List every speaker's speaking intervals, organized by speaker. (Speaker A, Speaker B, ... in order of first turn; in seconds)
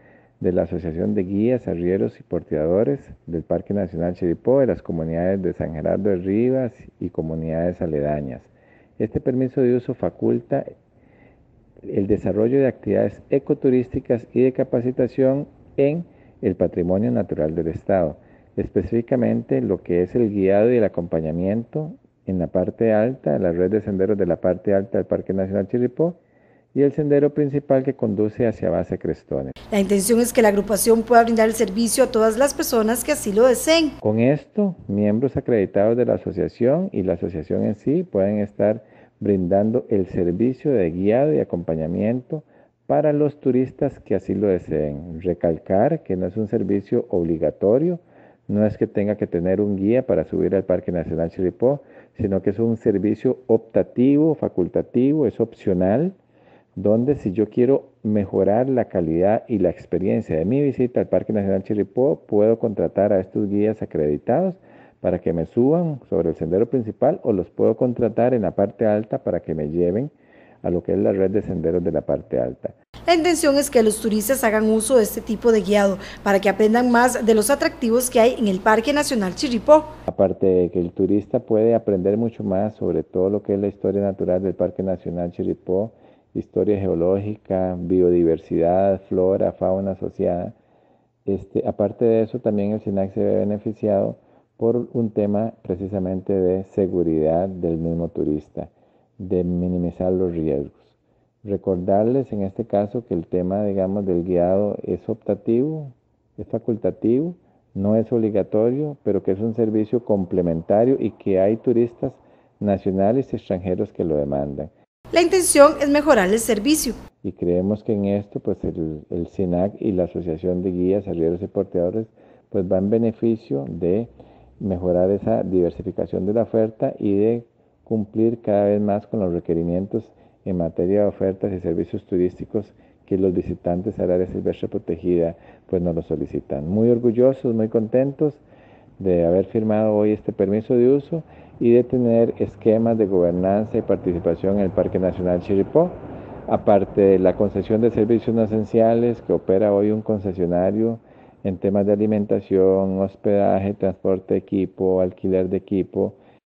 Speaker A: 0.4-10.7, 11.8-26.2, 26.7-29.6, 34.0-56.1, 56.8-70.1, 70.6-72.7, 80.1-90.5, 91.2-114.7, 117.2-138.4, 139.0-156.2
Speaker B: 29.7-34.0, 73.1-79.9, 115.1-117.0